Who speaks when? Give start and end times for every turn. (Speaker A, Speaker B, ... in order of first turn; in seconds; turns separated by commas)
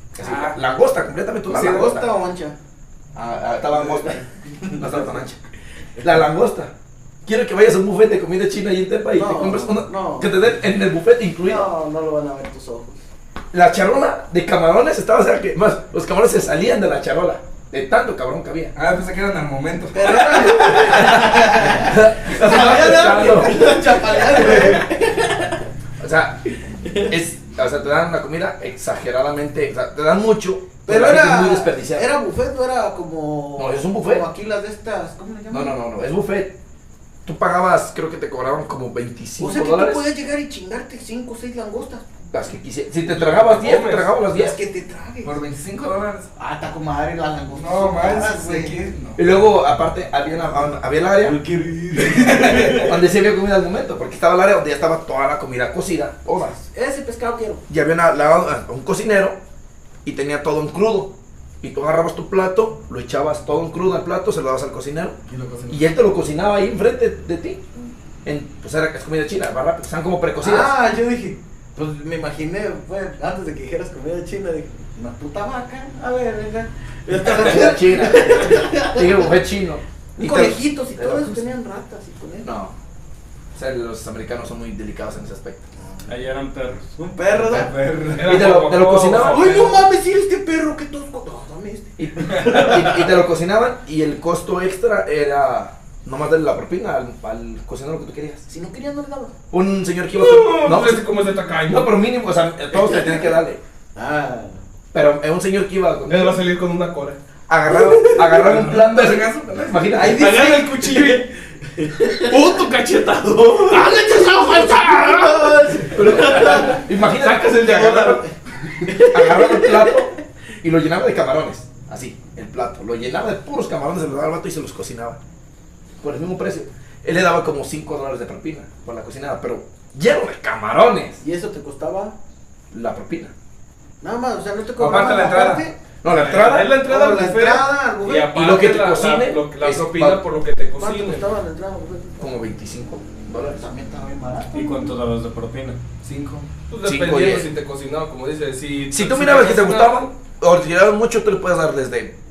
Speaker A: 0.1-2.1, Speaker B: 0.2-0.5, Speaker C: 1.5-2.6, Speaker A: 3.1-5.4, Speaker C: 3.7-5.2, Speaker A: 6.0-6.7, Speaker A: 7.2-11.7, Speaker C: 9.1-10.3, Speaker C: 11.4-13.0, Speaker A: 13.5-18.8, Speaker B: 18.8-21.1, Speaker C: 19.9-25.6, Speaker A: 20.4-24.8, Speaker A: 26.0-26.4, Speaker C: 26.8-27.1, Speaker A: 27.1-32.1, Speaker C: 30.9-35.8, Speaker A: 33.6-34.3, Speaker A: 35.5-36.6, Speaker A: 37.2-40.0, Speaker C: 39.4-42.1, Speaker A: 42.3-44.6, Speaker D: 43.1-44.1, Speaker C: 44.2-45.4, Speaker B: 45.2-46.3, Speaker C: 46.4-48.8, Speaker B: 47.6-49.2, Speaker A: 49.2-51.4, Speaker C: 51.2-53.0, Speaker B: 52.0-52.9, Speaker A: 52.3-56.6, Speaker C: 56.5-57.6, Speaker A: 57.7-59.4, Speaker A: 60.0-65.2, Speaker B: 65.3-65.8, Speaker A: 65.7-67.7, Speaker A: 68.2-70.7, Speaker C: 70.4-79.4, Speaker A: 77.2-81.5, Speaker C: 80.2-82.5, Speaker A: 82.4-82.8, Speaker A: 83.5-85.7, Speaker E: 86.1-86.9, Speaker C: 87.0-87.7, Speaker B: 87.3-88.8, Speaker D: 88.1-89.7, Speaker A: 88.2-89.7, Speaker C: 89.2-93.0, Speaker A: 92.0-98.5, Speaker B: 92.3-92.6, Speaker C: 98.5-99.3, Speaker A: 99.5-103.6, Speaker D: 100.1-102.0, Speaker C: 102.7-103.3, Speaker C: 104.0-104.6, Speaker A: 104.9-106.4, Speaker D: 106.1-107.2, Speaker A: 107.5-110.4, Speaker B: 108.2-109.9, Speaker C: 110.0-112.6, Speaker D: 110.0-111.3, Speaker D: 112.0-114.0, Speaker C: 113.7-116.9, Speaker D: 114.7-118.2, Speaker A: 115.9-118.2, Speaker C: 117.7-120.1, Speaker A: 118.9-125.2, Speaker A: 126.0-131.2, Speaker C: 131.2-132.2, Speaker A: 132.7-133.3, Speaker C: 134.0-135.8, Speaker B: 134.8-135.7, Speaker A: 136.0-136.8, Speaker D: 136.1-141.3, Speaker C: 136.8-138.4, Speaker A: 138.3-140.2, Speaker C: 140.8-142.3, Speaker A: 142.2-143.6, Speaker C: 143.5-144.9, Speaker E: 144.5-145.8, Speaker B: 146.0-146.5, Speaker D: 146.7-150.1, Speaker A: 146.8-147.5, Speaker A: 148.9-152.1